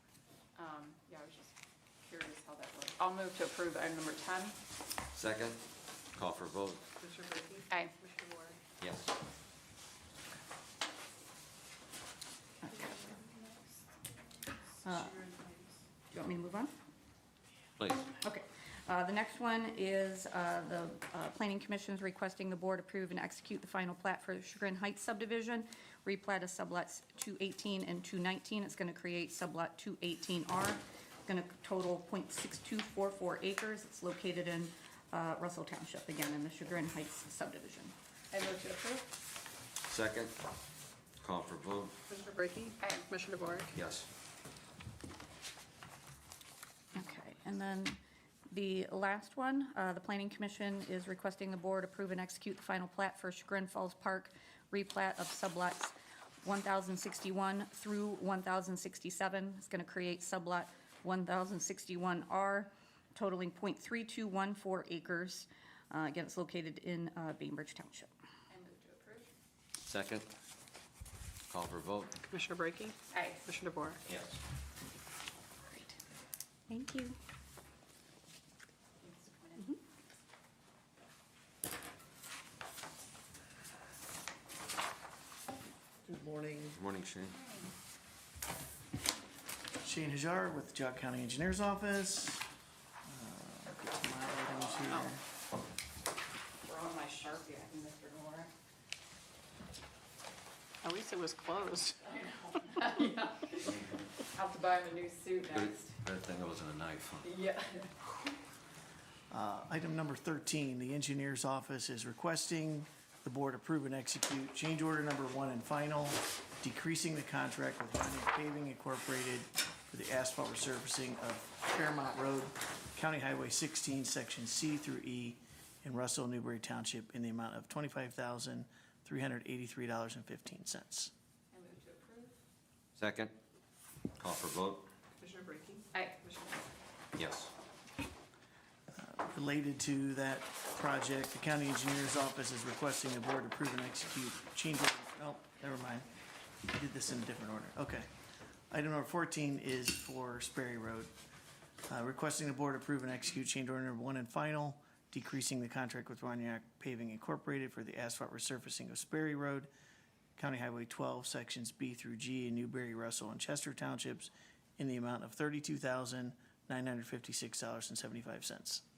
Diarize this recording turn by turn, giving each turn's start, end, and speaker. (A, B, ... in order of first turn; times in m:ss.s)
0:00.6-0:04.6 A
0:05.1-0:05.6 B
0:06.1-0:06.8 B
0:07.0-0:08.6 C
0:08.8-0:09.1 B
0:12.6-0:13.0 D
0:12.7-0:13.6 C
0:14.8-0:15.2 D
0:14.9-0:15.7 C
0:16.1-0:16.7 D
0:17.8-0:18.1 B
0:18.2-0:38.0 D
0:38.3-0:39.1 A
0:39.8-0:40.4 B
0:41.2-0:42.0 B
0:42.1-0:43.7 C
0:42.8-0:43.0 A
0:43.7-0:44.1 B
0:46.9-0:48.0 D
0:48.5-1:08.1 D
1:08.5-1:09.3 A
1:09.8-1:10.3 B
1:11.5-1:12.2 B
1:12.3-1:14.0 C
1:13.1-1:13.4 A
1:14.0-1:14.4 B
1:16.7-1:17.2 D
1:19.0-1:19.7 A
1:26.0-1:26.8 E
1:26.7-1:27.4 B
1:27.4-1:27.7 A
1:29.8-1:32.5 E
1:33.0-1:35.2 E
1:36.6-1:38.5 A
1:40.8-1:42.8 C
1:42.7-1:43.6 A
1:43.7-1:44.0 B
1:44.3-1:46.0 A
1:45.5-1:47.4 B
1:47.2-1:48.0 A
1:49.3-2:11.1 E
2:11.5-2:12.4 A
2:13.0-2:13.3 B
2:14.2-2:14.9 B
2:15.2-2:16.6 C
2:15.9-2:16.2 A
2:17.2-2:17.5 B
2:18.9-2:26.1 E
2:26.7-2:28.1 E
2:28.7-2:31.1 E
2:31.9-2:39.7 E
2:40.4-2:48.8 E